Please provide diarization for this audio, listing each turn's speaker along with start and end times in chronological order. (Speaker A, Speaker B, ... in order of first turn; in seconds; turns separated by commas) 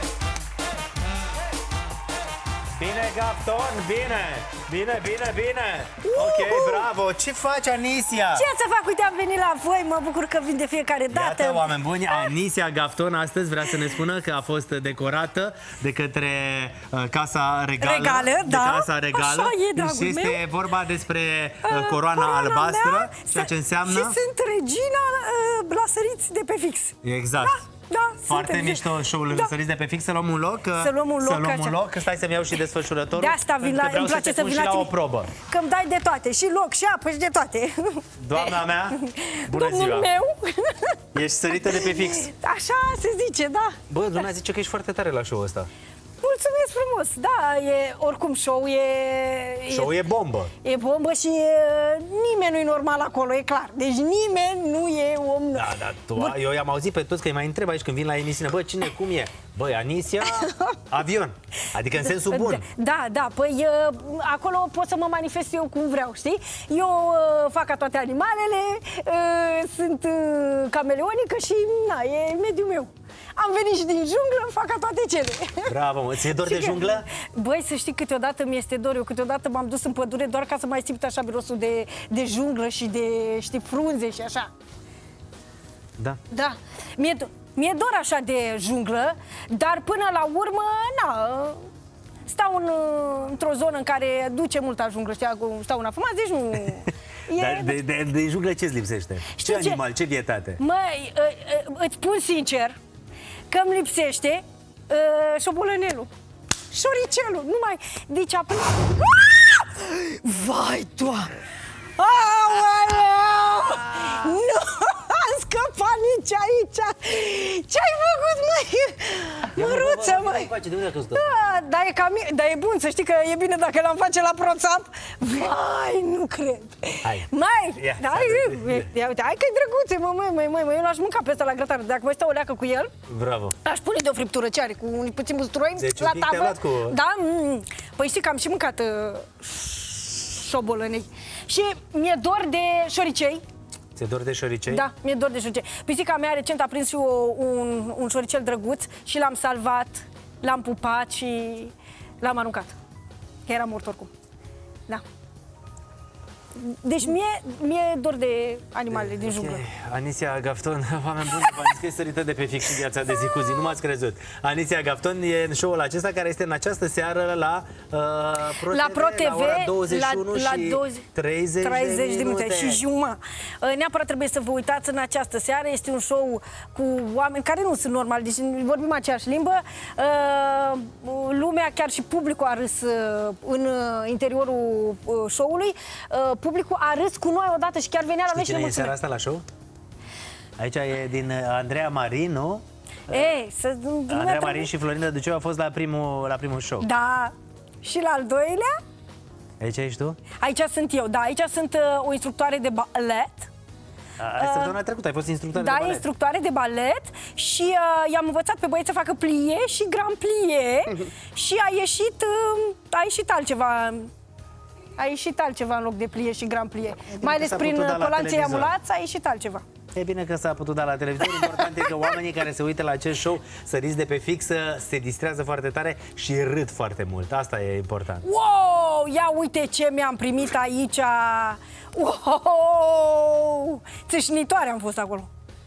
Speaker A: 2.8-8.5, Speaker B: 6.0-6.9, Speaker B: 8.3-12.3, Speaker A: 11.1-24.2, Speaker B: 13.7-14.0, Speaker B: 17.8-20.4, Speaker B: 21.6-29.5, Speaker A: 27.0-27.6, Speaker A: 28.3-35.3, Speaker B: 30.8-31.8, Speaker B: 33.1-43.8, Speaker A: 38.2-40.1, Speaker A: 41.1-42.3, Speaker A: 43.9-45.7, Speaker B: 46.2-50.0, Speaker A: 49.7-50.5, Speaker B: 50.6-56.4, Speaker A: 55.5-62.7, Speaker B: 60.2-60.7, Speaker B: 62.0-75.7, Speaker A: 75.7-77.1, Speaker B: 76.3-84.5, Speaker B: 86.3-91.6, Speaker B: 92.3-97.8, Speaker A: 97.3-100.6, Speaker B: 99.3-99.8, Speaker B: 100.6-102.8, Speaker B: 103.5-106.1, Speaker B: 106.7-111.3, Speaker B: 112.0-120.5, Speaker A: 119.5-121.3, Speaker B: 121.1-132.9, Speaker A: 127.0-128.9, Speaker A: 133.1-133.6, Speaker B: 133.7-143.4, Speaker A: 135.8-137.0, Speaker A: 143.9-144.8, Speaker B: 144.7-152.8, Speaker B: 153.5-154.1, Speaker B: 156.6-159.6, Speaker A: 158.9-172.8, Speaker B: 168.6-171.1, Speaker B: 171.6-189.0, Speaker A: 188.3-189.4, Speaker A: 190.6-193.3, Speaker B: 193.1-194.7, Speaker A: 194.1-196.9, Speaker B: 196.8-198.7, Speaker A: 199.6-200.2, Speaker B: 200.4-203.5, Speaker A: 204.2-206.1, Speaker B: 204.4-204.8, Speaker B: 205.5-214.1, Speaker B: 215.0-219.7, Speaker A: 217.2-218.7, Speaker A: 219.9-228.2, Speaker B: 221.4-221.7, Speaker B: 228.2-235.3